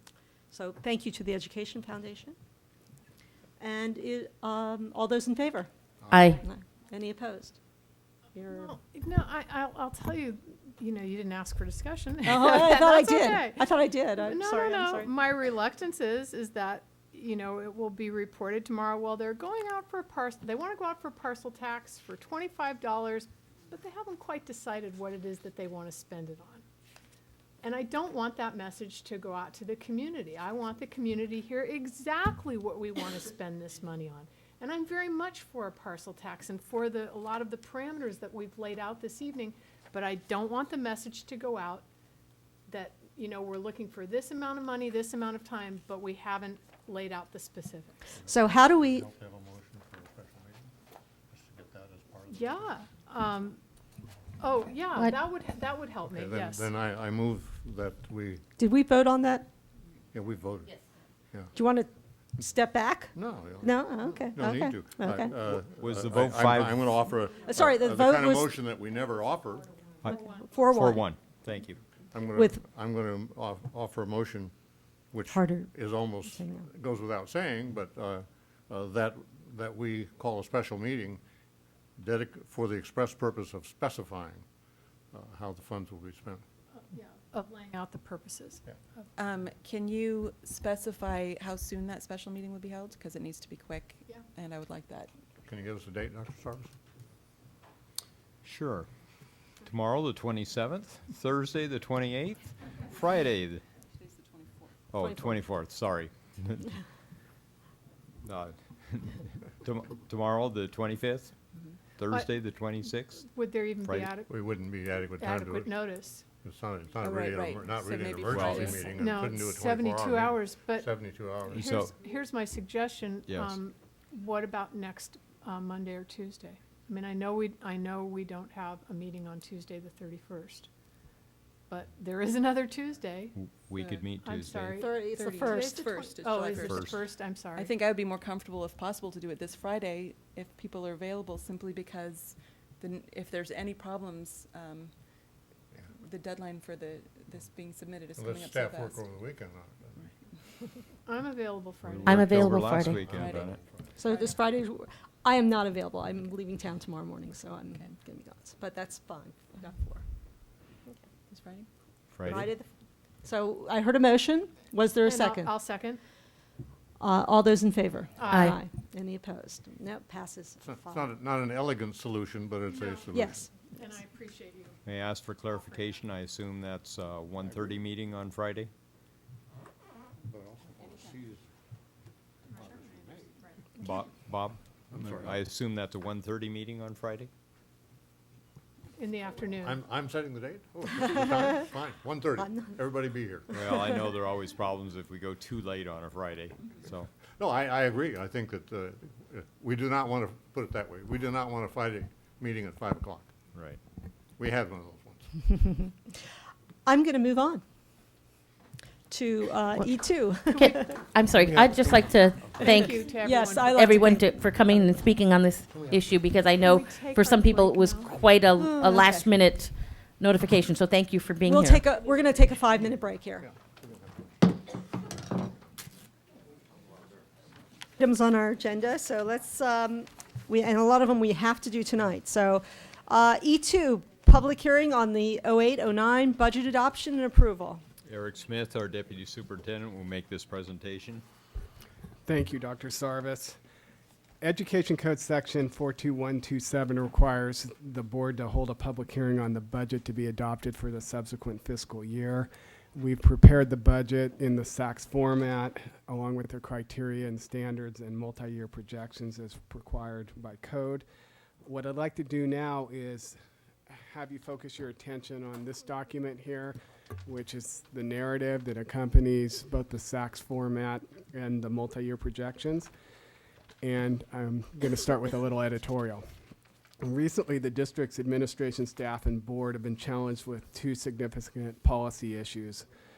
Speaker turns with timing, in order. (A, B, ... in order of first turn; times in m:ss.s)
0:00.5-0:02.4 A
0:03.6-0:05.7 A
0:06.0-0:06.3 B
0:06.1-0:06.4 C
0:06.4-0:07.6 A
0:08.4-0:08.7 A
0:08.5-0:26.6 D
0:12.2-0:15.1 A
0:27.6-0:41.8 D
0:42.7-0:48.0 D
0:48.1-0:50.7 B
0:48.3-0:49.0 A
0:51.3-0:52.7 B
0:52.3-0:53.6 D
0:54.4-0:56.7 D
0:56.1-0:58.4 B
0:58.6-0:59.5 A
1:00.1-1:00.8 B
1:01.5-1:05.3 A
1:03.1-1:09.9 B
1:05.7-1:07.0 E
1:07.4-1:08.5 A
1:10.0-1:11.8 E
1:10.0-1:11.0 A
1:10.1-1:10.4 D
1:12.1-1:14.5 B
1:15.1-1:21.2 B
1:15.3-1:15.7 A
1:16.3-1:16.6 A
1:22.0-1:24.4 B
1:25.1-1:26.4 B
1:26.8-1:29.0 D
1:29.2-1:35.1 F
1:35.4-1:36.7 B
1:38.4-1:38.9 E
1:39.6-1:43.6 E
1:43.9-1:44.8 F
1:44.9-1:46.7 E
1:45.0-1:45.3 A
1:48.2-1:51.3 E
1:52.0-1:53.2 E
1:53.2-1:54.3 D
1:53.8-1:54.1 E
1:54.3-2:01.6 B
1:55.2-1:56.2 D
1:57.0-1:59.1 F
1:58.2-1:58.8 E
1:58.8-2:10.7 D
2:01.5-2:01.9 E
2:03.3-2:03.6 E
2:11.7-2:13.3 D
2:13.3-2:14.9 E
2:13.8-2:14.0 F
2:14.2-2:17.7 D
2:14.8-2:16.1 A
2:15.3-2:24.9 F
2:16.5-2:17.0 E
2:26.0-2:29.1 F
2:28.1-2:30.1 B
2:31.0-2:32.3 D
2:31.8-2:33.6 E
2:32.0-2:33.0 C
2:32.9-2:33.9 B
2:33.0-2:33.5 F
2:34.0-2:40.0 A
2:41.3-2:41.7 F
2:42.1-2:42.5 E
2:42.2-2:42.7 A
2:43.2-2:45.5 A
2:45.0-2:46.0 D
2:47.0-2:51.1 A
2:48.2-2:48.5 D
2:48.3-2:48.6 C
2:50.6-2:53.4 B
2:52.7-2:53.1 D
2:53.1-2:53.7 A
2:53.7-2:54.8 D
2:54.8-2:58.7 E
2:55.6-2:55.9 D
3:00.3-3:01.4 B
3:02.5-3:03.8 D
3:02.6-3:03.3 B
3:03.8-3:07.3 E
3:04.9-3:05.4 B
3:09.0-3:09.8 D
3:09.6-3:13.5 B
3:12.4-3:12.8 A
3:13.5-3:17.1 E
3:17.3-3:23.3 B
3:23.5-3:23.8 E
3:24.4-3:25.3 B
3:26.8-3:27.6 A
3:29.1-3:30.9 A
3:29.8-3:33.1 C
3:31.4-3:32.7 B
3:32.6-3:33.8 D
3:32.6-3:34.2 A
3:33.6-3:41.8 C
3:35.7-3:36.1 B
3:36.6-3:38.2 D
3:38.6-3:39.2 A
3:38.8-3:39.2 F
3:41.4-3:43.5 A
3:43.4-3:44.2 B
3:48.0-3:57.8 A
3:58.1-4:01.2 E
4:02.2-4:03.6 G
4:04.4-4:21.0 G
4:21.6-4:32.9 G
4:33.8-4:36.2 G
4:37.0-4:42.8 G